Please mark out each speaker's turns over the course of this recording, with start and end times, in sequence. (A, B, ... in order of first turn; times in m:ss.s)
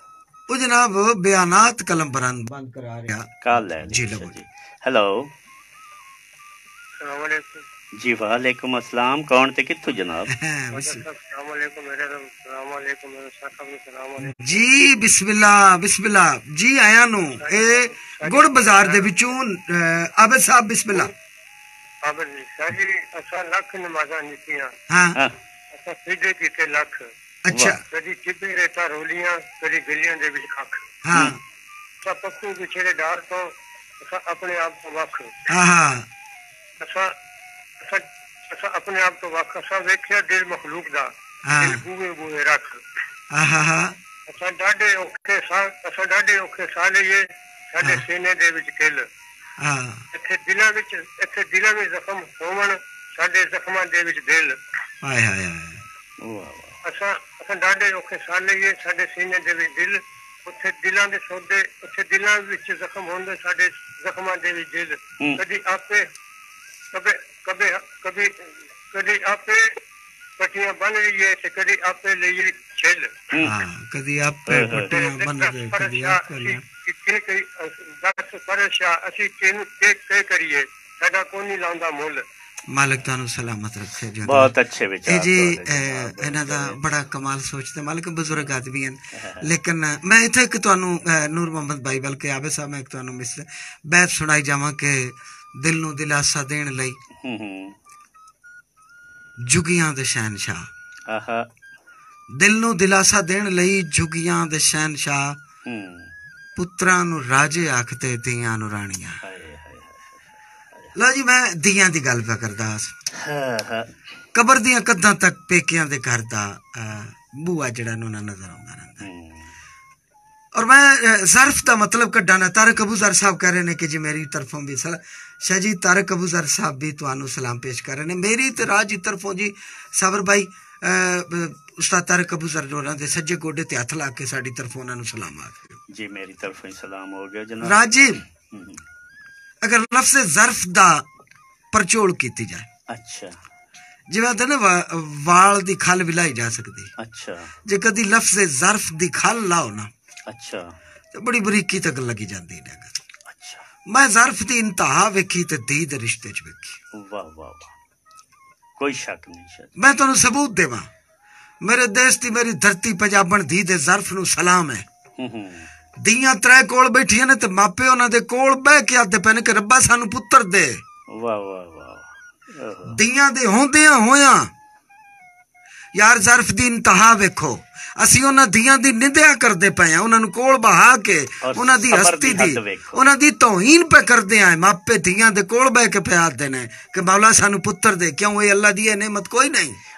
0:00.5-0:04.4 A
0:03.4-0:05.3 B
0:07.0-0:07.6 C
0:08.0-0:10.3 B
0:10.3-0:11.0 A
0:10.7-0:14.5 C
0:14.2-0:21.1 A
0:17.4-0:19.1 C
0:22.0-0:24.7 C
0:24.9-0:25.2 A
0:25.7-0:27.1 C
0:27.5-0:27.8 A
0:27.5-0:27.8 B
0:27.9-0:30.8 C
0:31.0-0:31.4 A
0:32.0-0:35.3 C
0:35.5-0:36.1 A
0:36.8-0:37.1 C
0:37.8-0:42.8 C
0:41.4-0:41.8 A
0:43.3-0:44.0 A
0:44.3-0:49.1 C
0:47.8-0:48.1 A
0:49.6-0:50.0 A
0:50.1-0:54.6 C
0:55.0-0:55.9 A
0:56.2-0:56.8 B
0:56.8-1:06.1 C
1:06.9-1:08.3 C
1:08.9-1:09.7 C
1:10.4-1:13.1 C
1:13.4-1:16.6 A
1:14.5-1:14.9 B
1:14.9-1:22.2 C
1:22.7-1:24.5 A
1:24.2-1:26.8 B
1:25.1-1:37.0 A
1:29.2-1:29.5 B
1:37.2-1:37.7 B
1:39.4-1:40.7 A
1:41.1-1:41.4 B
1:42.3-1:45.4 A
1:45.6-1:46.1 B
1:46.6-1:49.2 A
1:49.2-1:50.2 B
1:51.0-1:52.9 A
1:53.2-1:53.9 B
1:54.3-1:59.1 A
1:59.0-1:59.5 B
2:00.6-2:15.8 A
2:15.9-2:17.8 B
2:17.6-2:18.2 A
2:18.4-2:18.8 B
2:19.6-2:21.0 A
2:21.7-2:22.7 A
2:22.9-2:23.4 B
2:24.1-2:26.9 A
2:27.0-2:27.5 B
2:27.6-2:29.9 A
2:30.3-2:30.7 B
2:31.1-2:33.0 A
2:33.3-2:33.6 B
2:33.9-2:36.8 A
2:36.9-2:37.7 B
2:38.8-2:39.7 B
2:39.8-2:40.9 A
2:41.6-2:44.8 A
2:45.2-2:45.7 B
2:46.0-2:50.8 A
2:51.1-2:53.0 B
2:52.9-2:54.5 A
2:55.9-3:09.8 A
3:01.4-3:03.0 B